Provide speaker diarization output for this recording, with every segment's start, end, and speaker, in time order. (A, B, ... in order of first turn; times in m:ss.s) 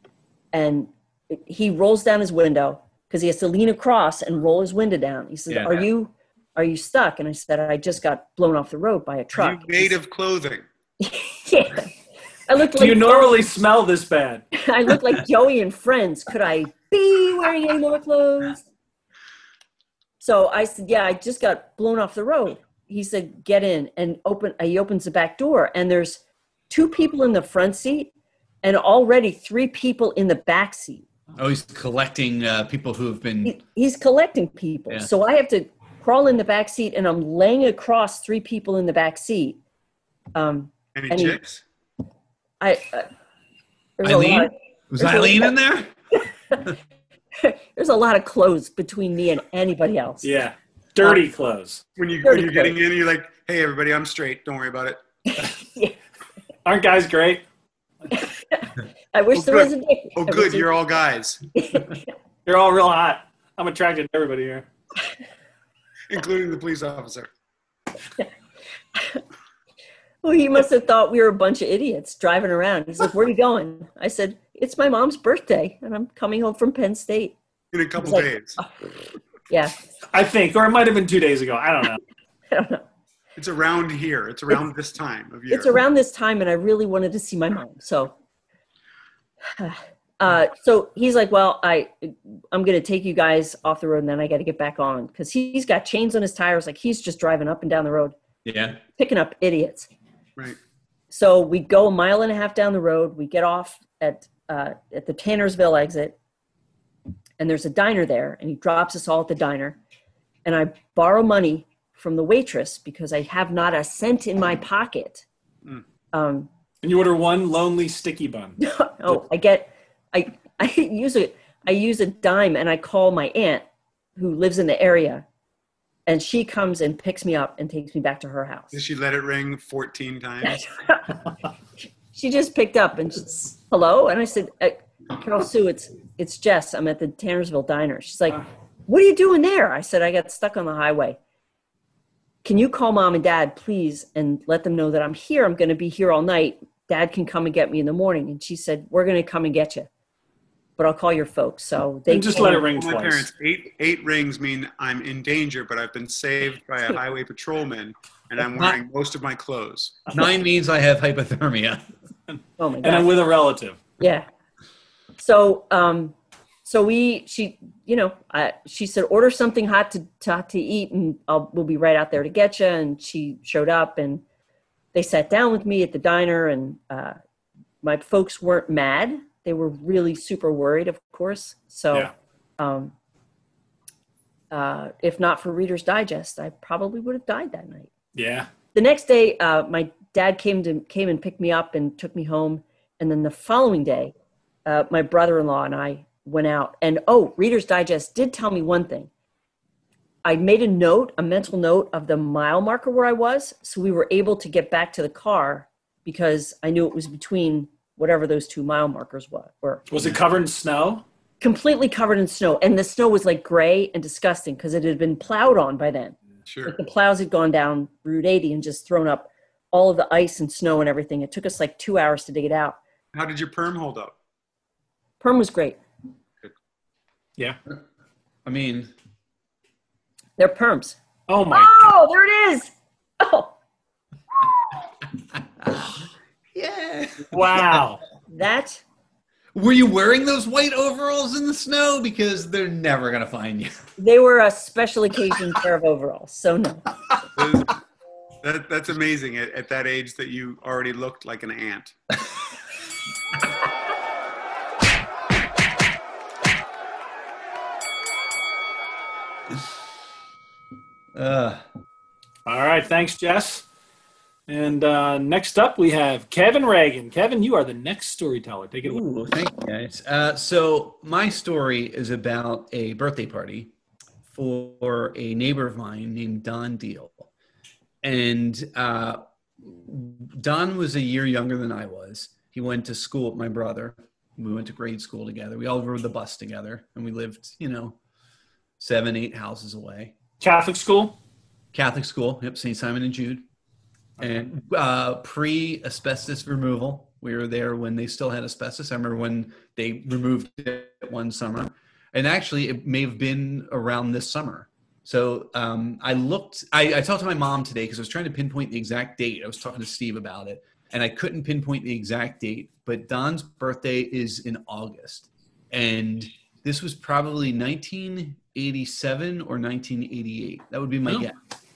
0:00.5-0:10.0 A
0:05.5-0:05.9 B
0:09.4-0:10.6 C
0:11.0-0:11.9 A
0:12.5-0:13.4 A
0:12.8-0:14.5 D
0:14.5-0:18.6 A
0:20.2-0:28.1 A
0:28.6-0:31.1 A
0:31.4-0:33.6 B
0:33.4-0:39.6 A
0:40.3-0:41.4 A
0:41.0-0:41.6 C
0:42.6-0:43.1 A
0:44.0-0:45.5 A
0:44.0-0:45.9 B
0:47.4-0:50.3 A
0:50.2-0:51.8 D
0:52.0-0:55.0 C
0:52.2-0:52.7 A
0:55.5-0:56.0 A
0:56.6-0:57.4 D
0:58.1-1:00.7 A
0:59.3-1:01.4 C
1:01.6-1:02.0 A
1:02.5-1:04.7 D
1:06.1-1:07.3 C
1:09.0-1:09.2 A
1:10.2-1:17.4 A
1:17.7-1:18.6 C
1:18.0-1:18.9 A
1:19.5-1:19.8 A
1:20.1-1:22.0 D
1:22.5-1:22.8 A
1:23.4-1:25.8 C
1:25.5-1:28.1 A
1:29.6-1:38.2 A
1:38.4-1:38.8 B
1:39.0-1:39.9 A
1:41.1-1:46.2 A
1:47.4-1:49.8 A
1:50.4-1:55.2 A
1:56.1-1:56.5 A
1:56.8-1:59.2 D
1:58.6-2:03.6 A
2:04.2-2:05.2 A
2:06.1-2:08.7 A
2:08.7-2:10.7 C
2:10.4-2:11.3 A
2:12.1-2:21.2 A
2:22.4-2:29.9 A
2:30.8-2:32.7 A
2:32.1-2:33.3 D
2:32.4-2:40.1 C
2:38.4-2:38.8 B
2:40.1-2:41.8 B
2:42.3-2:43.8 D
2:42.6-2:43.1 A
2:44.0-2:44.3 A
2:45.2-2:54.2 A
2:54.9-2:57.2 A
2:57.8-3:02.9 A
3:04.5-3:07.9 A
3:08.2-3:08.5 D
3:08.7-3:14.1 A
3:14.7-3:19.1 A
3:20.2-3:30.2 A
3:29.9-3:31.0 D
3:31.4-3:36.2 A
3:36.5-3:36.8 C
3:36.7-3:42.8 A
3:43.1-3:44.2 C
3:45.2-3:45.8 A
3:48.4-3:48.9 B
3:50.4-3:51.0 A
3:51.3-3:51.8 D
3:51.5-3:53.5 A
3:55.6-3:56.0 B
3:56.5-3:57.8 B
3:57.3-3:58.0 D
3:58.3-3:58.8 A
3:59.6-4:03.7 B
4:04.0-4:06.9 A
4:07.4-4:07.8 C
4:08.4-4:11.9 C
4:21.1-4:21.6 B
4:22.5-4:23.7 D
4:24.5-4:29.0 D
4:28.8-4:33.7 B
4:34.3-4:37.3 B
4:38.0-4:48.0 B
4:48.8-4:50.1 B
4:50.4-4:51.2 D
4:51.7-4:53.4 B
4:54.2-5:21.3 B